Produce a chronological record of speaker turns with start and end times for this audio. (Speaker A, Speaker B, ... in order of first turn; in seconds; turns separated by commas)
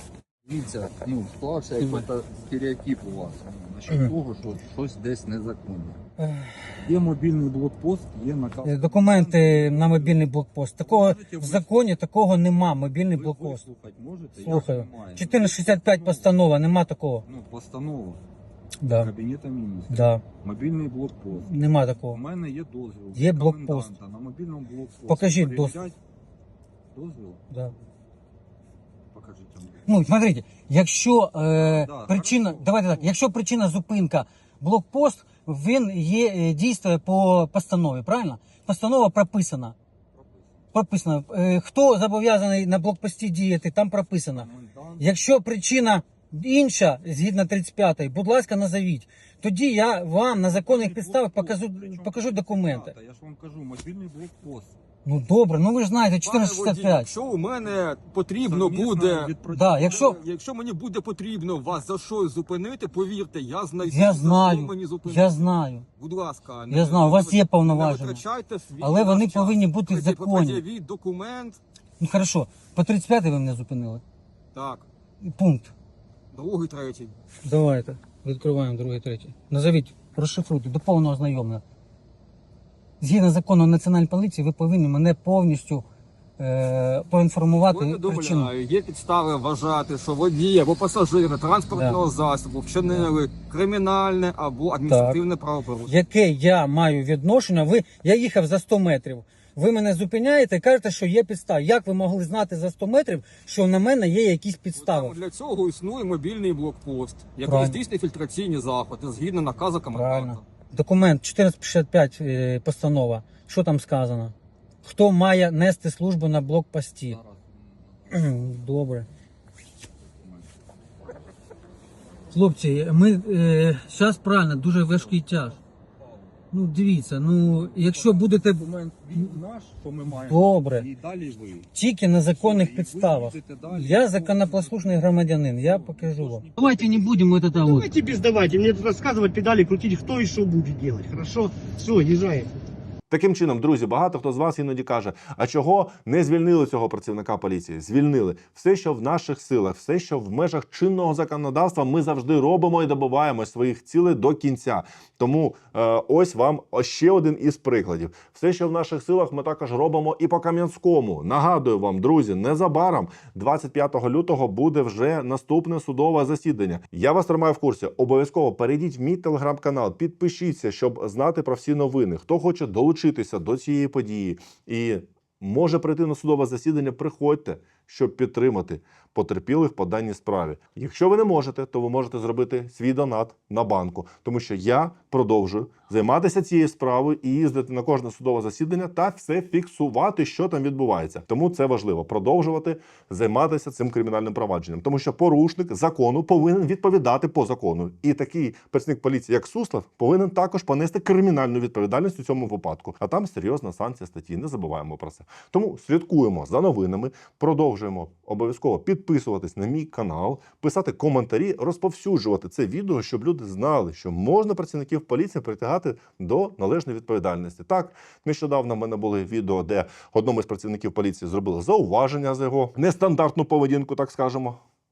Speaker A: 0.4-6.0, Speaker B: 1.8-2.1, Speaker B: 6.2-6.7, Speaker A: 6.8-10.2, Speaker B: 8.6-13.7, Speaker A: 10.8-11.7, Speaker A: 13.1-16.3, Speaker B: 14.4-17.2, Speaker A: 17.2-18.2, Speaker B: 18.8-19.1, Speaker A: 19.0-21.5, Speaker B: 19.9-20.2, Speaker B: 21.3-22.2, Speaker A: 22.0-25.9, Speaker B: 23.1-23.9, Speaker B: 25.1-25.9, Speaker A: 26.9-27.4, Speaker B: 27.5-27.7, Speaker A: 29.1-29.9, Speaker B: 29.9-39.8, Speaker A: 31.6-33.1, Speaker A: 40.2-40.6, Speaker B: 40.7-44.5, Speaker A: 44.3-45.1, Speaker B: 45.0-52.9, Speaker A: 50.5-54.8, Speaker B: 55.0-57.1, Speaker C: 56.2-71.6, Speaker A: 58.4-60.1, Speaker B: 59.5-60.2, Speaker B: 63.8-65.8, Speaker B: 66.7-68.2, Speaker B: 68.8-70.6, Speaker B: 72.0-74.0, Speaker C: 74.5-74.8, Speaker B: 75.2-75.7, Speaker C: 76.3-77.2, Speaker B: 77.4-81.6, Speaker B: 83.0-85.8, Speaker B: 86.4-88.5, Speaker C: 87.7-95.9, Speaker B: 94.9-95.2, Speaker B: 95.8-105.2, Speaker C: 104.7-110.4, Speaker B: 107.4-107.8, Speaker B: 109.9-117.2, Speaker A: 117.1-118.3, Speaker B: 118.1-119.1, Speaker A: 120.0-120.5, Speaker B: 122.3-125.6, Speaker A: 126.0-126.4, Speaker B: 126.5-128.7, Speaker A: 127.5-131.7, Speaker B: 130.2-130.9, Speaker B: 131.7-137.9, Speaker A: 132.3-137.1, Speaker D: 137.6-142.5, Speaker E: 143.1-224.6